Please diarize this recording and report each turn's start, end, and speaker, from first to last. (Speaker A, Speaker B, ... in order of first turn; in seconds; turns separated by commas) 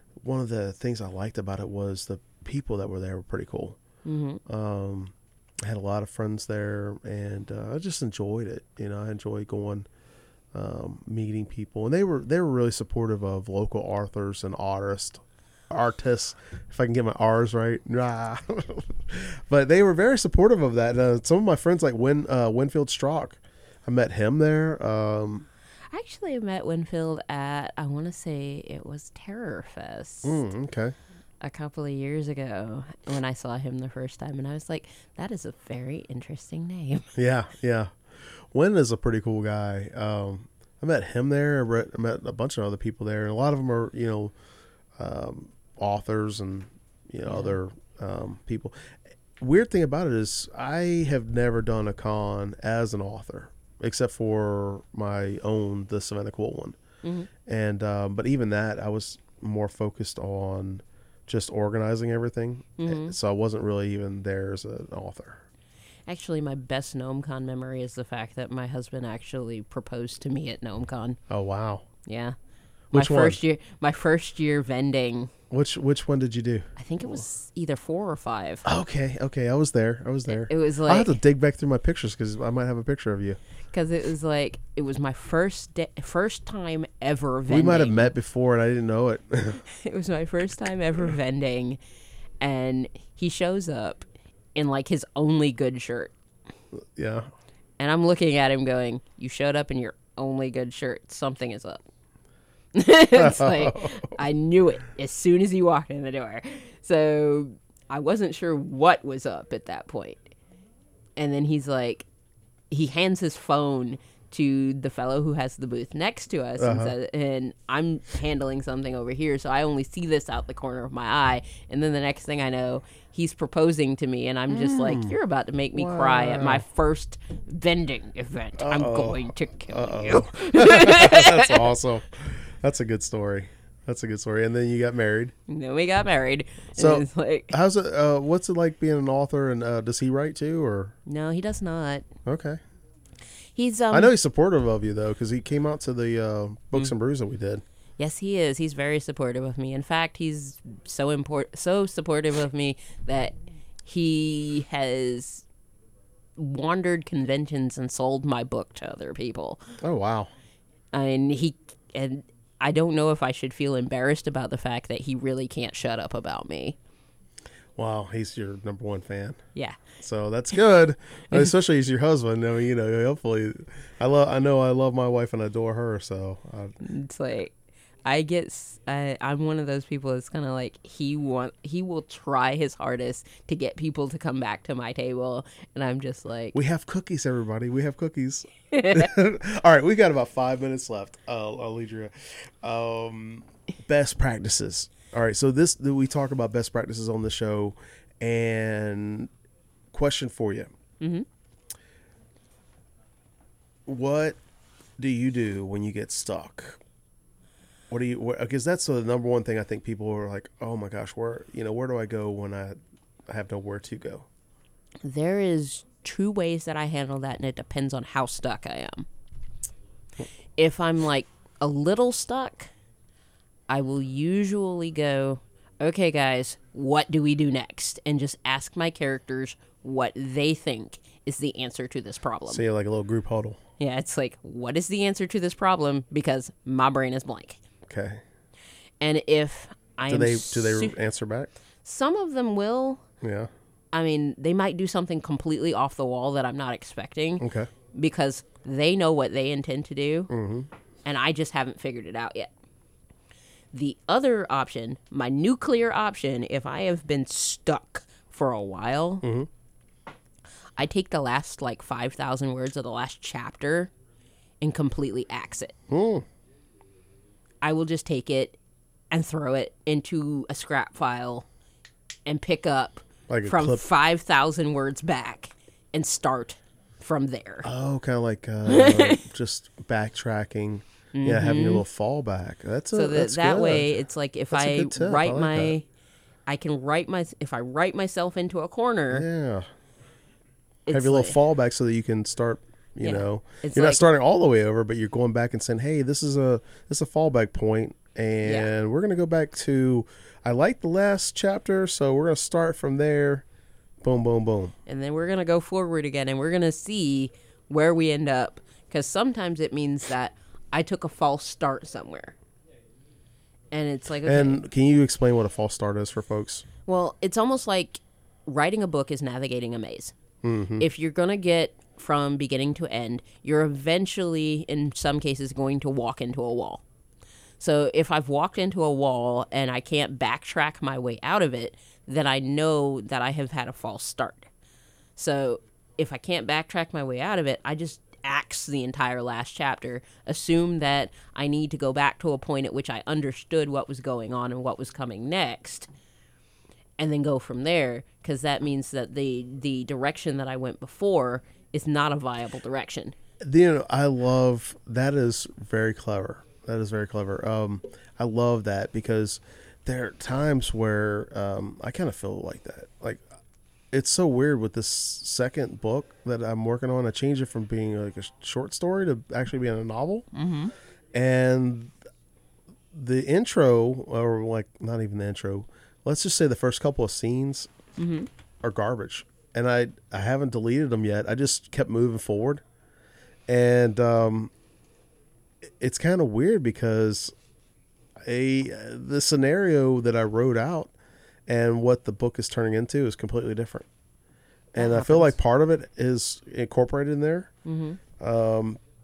Speaker A: 0.2-3.8, Speaker B: 4.0-4.4, Speaker A: 4.5-9.9, Speaker A: 10.5-25.5, Speaker B: 25.9-30.4, Speaker A: 30.2-30.9, Speaker B: 31.4-37.1, Speaker A: 37.1-37.9, Speaker A: 38.5-44.3, Speaker A: 45.0-48.7, Speaker B: 47.2-47.5, Speaker A: 49.4-56.8, Speaker B: 57.0-57.3, Speaker A: 57.5-65.4, Speaker B: 62.8-63.1, Speaker B: 66.0-71.2, Speaker A: 71.3-71.8, Speaker B: 72.0-72.3, Speaker A: 72.9-73.4, Speaker B: 72.9-75.3, Speaker A: 75.5-77.2, Speaker B: 76.8-78.6, Speaker A: 78.6-83.4, Speaker B: 80.3-81.2, Speaker B: 83.7-88.1, Speaker A: 87.5-89.6, Speaker B: 89.7-91.8, Speaker B: 92.4-96.1, Speaker A: 97.0-97.3, Speaker B: 97.8-101.8, Speaker B: 102.7-110.3, Speaker A: 103.1-104.2, Speaker B: 111.2-112.0, Speaker B: 112.7-131.6, Speaker A: 116.6-116.9, Speaker A: 124.5-125.1, Speaker A: 125.7-126.6, Speaker A: 128.6-135.3, Speaker B: 135.5-137.5, Speaker A: 136.8-140.9, Speaker B: 141.1-142.1, Speaker A: 142.2-142.6, Speaker B: 143.5-144.1, Speaker A: 143.9-147.6, Speaker B: 148.0-155.4, Speaker B: 156.3-159.6, Speaker A: 159.8-160.3, Speaker B: 160.9-166.8, Speaker A: 167.8-169.4, Speaker B: 169.5-169.8, Speaker A: 170.0-176.7, Speaker B: 176.8-186.6, Speaker A: 186.5-199.3, Speaker B: 188.7-189.1, Speaker A: 199.9-200.7, Speaker B: 201.0-201.2, Speaker A: 203.9-204.4, Speaker A: 205.0-206.8, Speaker A: 207.9-212.8, Speaker A: 213.3-214.3, Speaker B: 215.0-219.1, Speaker B: 220.6-222.7, Speaker B: 223.7-232.6, Speaker A: 232.5-233.6, Speaker B: 233.8-237.6, Speaker A: 237.8-238.2, Speaker B: 239.0-240.9, Speaker A: 240.1-241.5, Speaker B: 241.8-243.0, Speaker A: 243.2-243.5, Speaker B: 243.9-250.3, Speaker A: 247.4-247.7, Speaker A: 250.3-250.7, Speaker B: 251.0-252.5, Speaker B: 253.7-259.2, Speaker A: 259.2-259.5, Speaker B: 260.8-263.9, Speaker B: 264.6-265.7, Speaker A: 265.9-266.2, Speaker B: 267.6-268.6, Speaker B: 269.1-271.4, Speaker B: 272.2-277.7, Speaker A: 273.3-273.8, Speaker A: 277.6-283.9, Speaker B: 278.7-279.2, Speaker B: 281.1-281.8, Speaker B: 282.9-285.8, Speaker A: 284.5-285.8, Speaker B: 286.5-289.2, Speaker A: 289.1-289.7, Speaker B: 290.9-291.4, Speaker A: 290.9-303.4, Speaker B: 293.0-294.0, Speaker B: 298.4-298.7, Speaker A: 304.0-304.7, Speaker B: 304.9-312.4, Speaker B: 313.7-314.6, Speaker A: 314.2-316.6, Speaker B: 316.9-320.1, Speaker A: 320.4-320.9, Speaker B: 320.8-326.8, Speaker B: 327.6-334.5, Speaker B: 335.2-345.9, Speaker B: 347.0-353.1, Speaker A: 353.4-363.2, Speaker A: 363.9-370.3, Speaker B: 370.3-370.7, Speaker A: 371.1-371.9, Speaker A: 372.9-377.7, Speaker B: 378.0-378.3, Speaker A: 378.6-382.6, Speaker A: 383.5-384.5, Speaker A: 385.8-387.3, Speaker A: 388.2-390.9, Speaker A: 391.5-393.9, Speaker A: 394.7-397.5, Speaker B: 394.7-395.4, Speaker B: 397.6-398.0, Speaker A: 398.2-398.8